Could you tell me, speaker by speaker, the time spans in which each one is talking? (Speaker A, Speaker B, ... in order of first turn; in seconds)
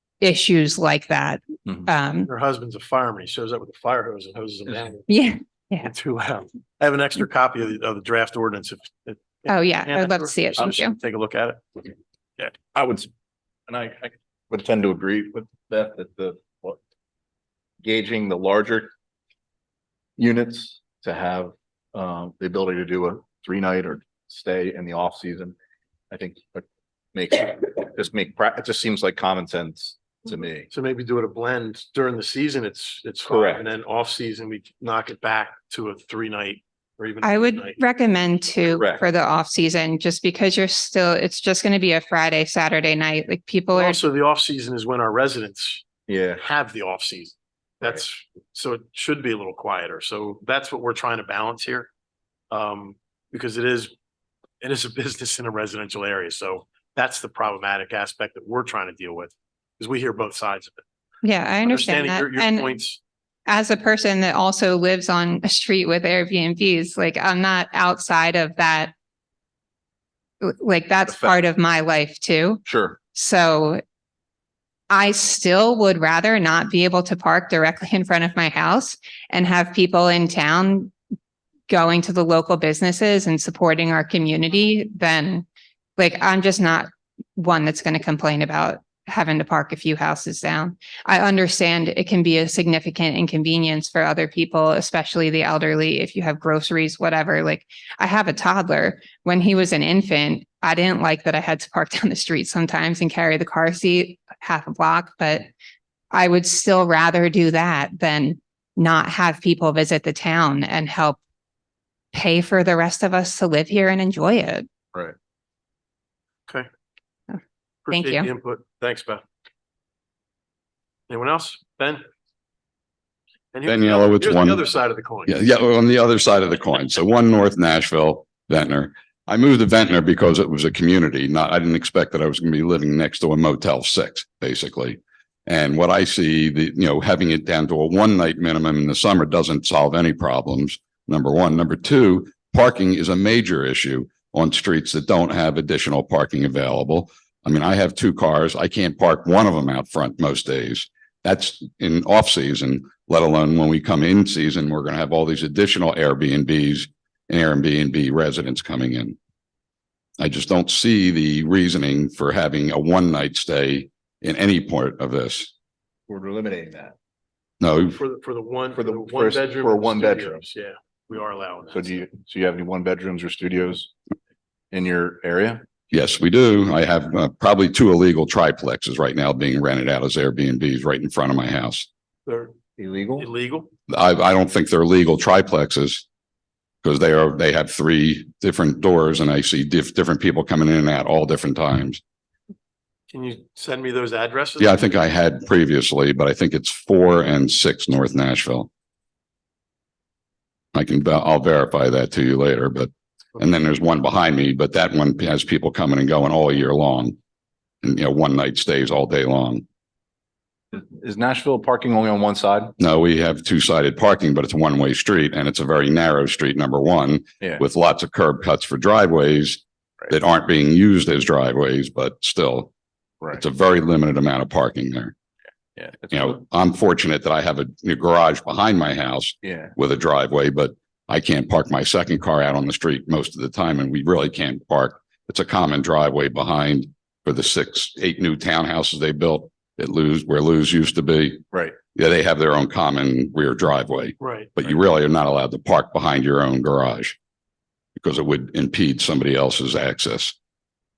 Speaker A: 0.2-2.3, 5.1-5.9, 9.5-10.9, 37.2-44.0, 61.2-62.7, 63.5-68.9, 70.4-72.6, 73.1-73.8, 74.9-80.9, 81.7-85.5, 86.0-105.5, 106.1-111.2, 112.1-114.7, 117.3-118.3
Speaker B: 2.3-5.1, 5.8-12.5, 30.7-37.8, 43.7-45.8, 46.4-51.9, 52.5-53.9, 54.6-60.8, 61.6-63.0, 117.8-119.2, 121.1-122.0, 123.5-125.4, 167.9-171.9, 182.2-182.5, 183.2-183.7, 193.1-194.9, 244.2-244.5
Speaker C: 12.7-13.1, 13.7-16.8, 17.8-18.9, 20.2-25.6, 26.1-30.7, 33.3-33.7, 38.6-39.0, 46.1-46.4, 71.1-71.4, 72.6-73.0, 166.1-166.9, 168.7-170.4, 171.7-173.9, 174.7-175.6, 182.8-183.2, 210.7-212.7, 225.7-226.4, 229.4-229.7
Speaker D: 123.7-124.6, 125.3-159.2, 160.2-165.5, 167.6-168.0, 175.9-181.9, 183.9-186.0, 186.8-192.0, 194.6-198.7, 200.7-207.2, 207.8-209.6, 212.8-222.7, 223.3-225.1, 226.1-247.1, 248.0-250.3